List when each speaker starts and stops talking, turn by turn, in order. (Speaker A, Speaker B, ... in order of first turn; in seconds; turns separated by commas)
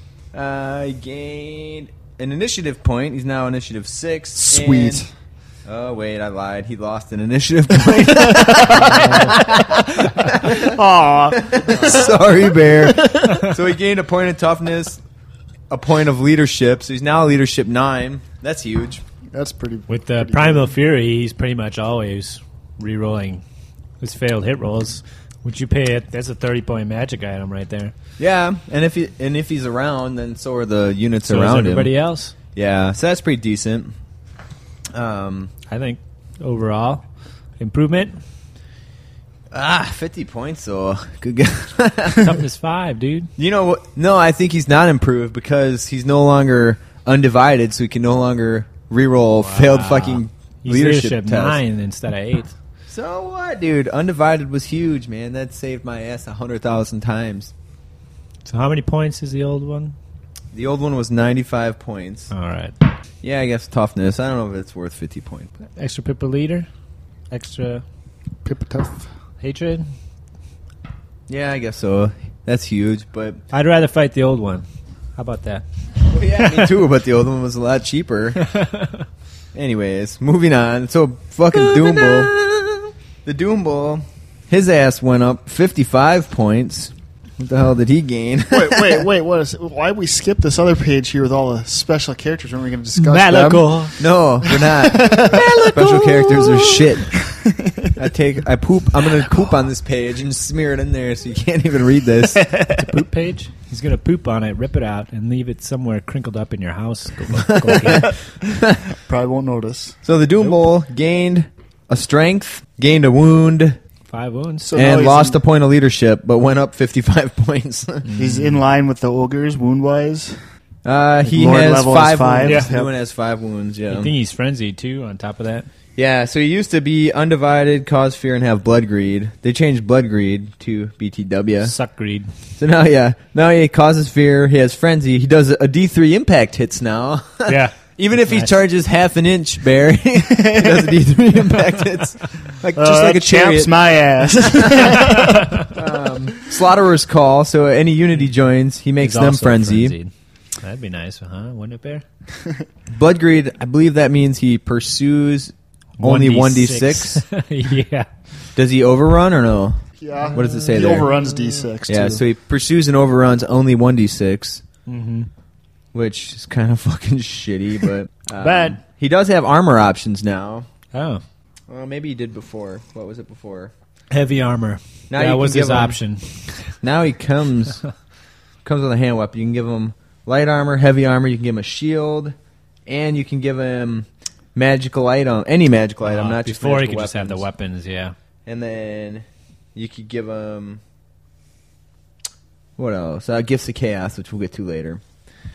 Speaker A: 0.3-5.0, Speaker B: 4.4-5.1, Speaker A: 5.7-10.8, Speaker B: 8.5-8.9, Speaker C: 8.7-9.3, Speaker B: 10.4-13.4, Speaker A: 11.3-15.0, Speaker A: 15.7-19.0, Speaker B: 19.3-20.7, Speaker C: 19.9-23.4, Speaker C: 24.0-27.9, Speaker A: 28.2-31.9, Speaker C: 31.2-32.3, Speaker A: 32.5-33.9, Speaker A: 34.9-35.5, Speaker C: 35.7-37.0, Speaker C: 37.6-38.2, Speaker A: 39.5-42.4, Speaker C: 42.1-43.3, Speaker A: 43.4-51.6, Speaker C: 49.4-52.5, Speaker A: 52.9-57.5, Speaker C: 58.4-60.0, Speaker A: 60.5-62.3, Speaker C: 62.3-62.8, Speaker A: 63.2-65.5, Speaker C: 65.8-66.7, Speaker C: 67.3-67.8, Speaker B: 68.4-69.1, Speaker C: 69.4-69.9, Speaker A: 71.3-73.4, Speaker C: 73.5-75.6, Speaker A: 76.0-78.5, Speaker C: 76.3-76.7, Speaker C: 78.4-79.0, Speaker A: 79.5-82.3, Speaker A: 83.2-89.1, Speaker B: 88.5-95.4, Speaker C: 93.0-94.0, Speaker A: 94.0-97.2, Speaker C: 95.3-96.9, Speaker B: 97.3-97.9, Speaker A: 98.0-102.5, Speaker C: 102.7-108.1, Speaker A: 107.5-108.8, Speaker B: 109.0-110.0, Speaker A: 110.0-113.8, Speaker C: 114.1-114.7, Speaker B: 114.6-115.4, Speaker A: 114.7-118.1, Speaker C: 118.0-118.6, Speaker B: 118.2-120.4, Speaker A: 120.8-124.1, Speaker B: 121.2-122.9, Speaker C: 123.9-125.7, Speaker A: 126.0-131.7, Speaker C: 131.6-132.3, Speaker A: 132.6-143.7, Speaker C: 137.4-138.5, Speaker B: 142.7-145.7, Speaker A: 144.4-145.0, Speaker A: 145.6-149.9, Speaker C: 149.0-152.0, Speaker A: 152.9-157.2, Speaker C: 156.0-158.1, Speaker A: 158.6-159.8, Speaker B: 160.0-162.2, Speaker A: 160.3-161.1, Speaker A: 161.8-164.6, Speaker C: 164.9-165.3, Speaker A: 165.9-170.7, Speaker C: 168.4-168.8, Speaker C: 170.9-171.2, Speaker A: 171.7-173.7, Speaker C: 174.1-176.7, Speaker A: 175.1-176.0, Speaker A: 176.8-177.8, Speaker A: 178.6-187.5, Speaker C: 186.0-188.1, Speaker A: 188.4-190.8, Speaker A: 192.8-195.0